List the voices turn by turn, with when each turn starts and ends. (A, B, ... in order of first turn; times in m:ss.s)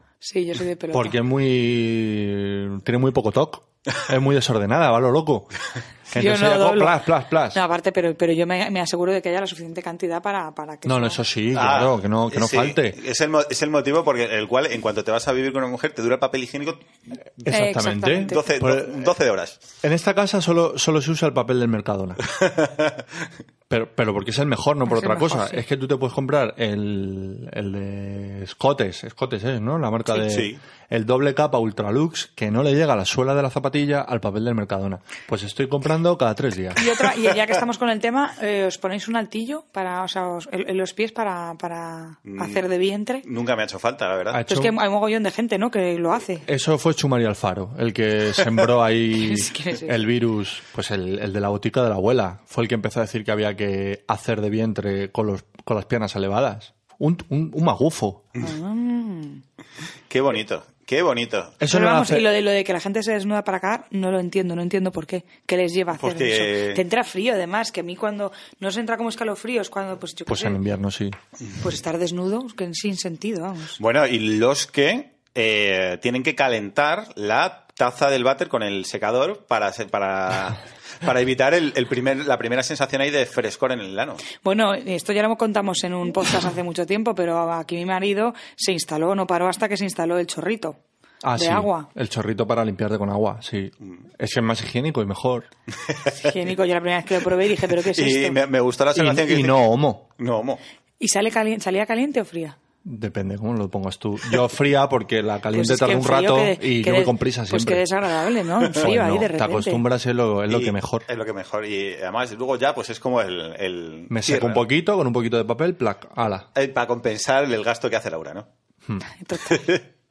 0:00.2-0:01.2 A
0:00.9-0:05.5 B
0:06.1-0:07.6 B
0:06.1-0:11.2 A
0:10.8-0:13.0 B
0:11.5-0:16.8 C
0:17.4-0:19.1 B
0:17.5-0:18.4 A
0:18.3-0:19.6 C
0:19.8-0:22.2 B
0:22.4-0:23.0 C
0:23.7-0:36.9 B
0:24.9-0:25.6 A
0:30.1-0:30.6 C
0:36.8-0:43.2 A
0:42.2-0:42.7 C
0:43.2-0:44.4 C
0:44.3-0:44.8 B
0:44.5-0:46.4 A
0:46.5-0:58.3 B
0:49.1-0:50.0 A
0:58.4-0:59.4 A
1:00.1-1:01.6 C
1:01.6-1:02.3 B
1:01.7-1:10.6 A
1:06.0-1:06.8 C
1:10.3-1:11.2 B
1:11.6-1:13.8 A
1:13.8-1:24.2 C
1:24.4-1:30.8 A
1:31.2-1:35.5 B
1:31.4-1:31.9 A
1:35.9-1:36.2 C
1:36.2-1:38.4 A
1:37.8-1:39.7 C
1:39.0-1:40.0 B
1:40.2-1:40.6 C
1:41.0-1:42.6 A
1:42.8-1:47.8 B
1:45.5-1:49.8 A
1:48.7-1:51.1 B
1:50.5-1:54.6 C
1:54.1-1:56.5 B
1:56.6-1:58.5 C
1:59.2-1:59.7 A
1:59.5-1:59.8 C